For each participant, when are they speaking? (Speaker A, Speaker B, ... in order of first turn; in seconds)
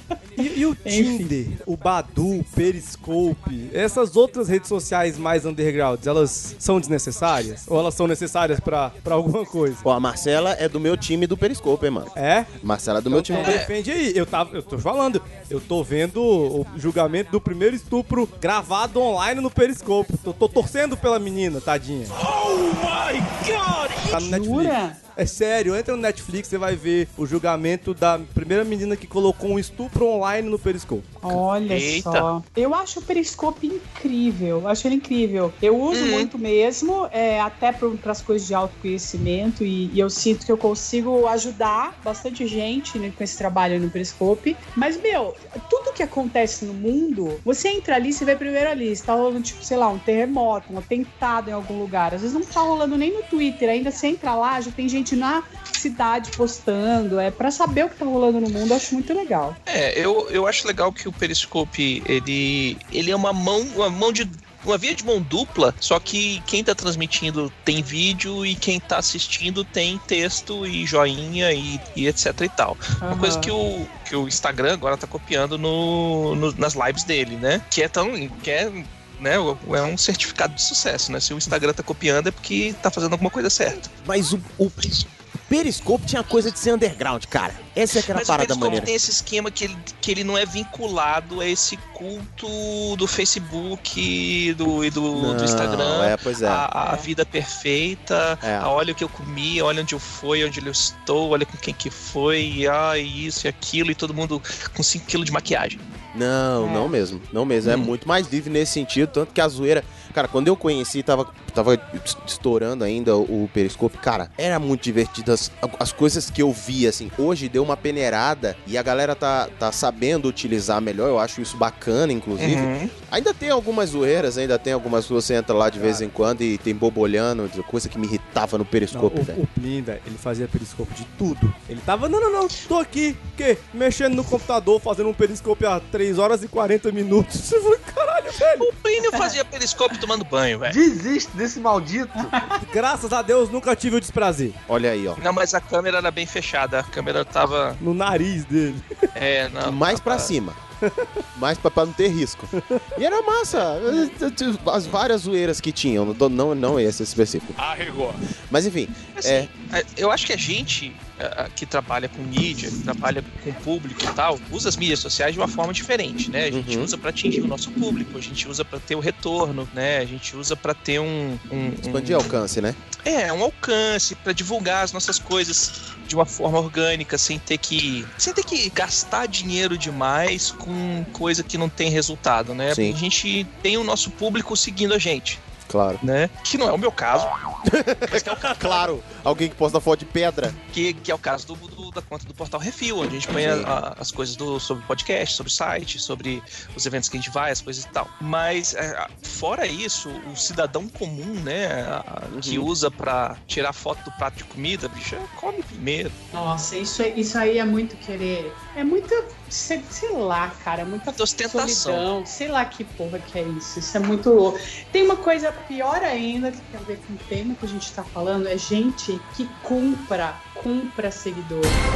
Speaker A: 0.4-9.8, 12.2-12.5, 13.1-22.1, 24.1-31.1, 125.8-126.1, 128.9-138.7, 142.6-144.6, 147.8-148.8, 150.8-151.1
Speaker B: 0.8-1.3, 13.3-13.6, 24.2-25.0, 31.2-59.6, 73.0-73.5, 96.8-97.1, 106.6-107.0, 142.2-142.6, 206.3-221.8
Speaker C: 9.8-13.6, 84.0-88.9, 95.1-96.7, 98.4-98.7, 106.1-129.4, 144.7-145.2, 149.6-150.6, 151.3-157.6, 158.5-159.5, 166.5-166.9, 171.8-172.8, 182.7-183.0, 185.7-186.0, 187.7-190.6, 193.4-193.8, 202.3-202.7
Speaker D: 13.4-13.7, 31.3-32.3, 35.9-36.3, 59.7-83.9, 87.9-105.8, 107.6-107.9, 122.4-122.9, 138.6-140.8, 145.2-147.8, 149.2-150.3, 159.1-172.4, 173.0-185.4, 186.0-187.4, 188.1-188.9, 190.7-206.2, 211.1-212.1
Speaker E: 22.2-24.1, 140.7-142.4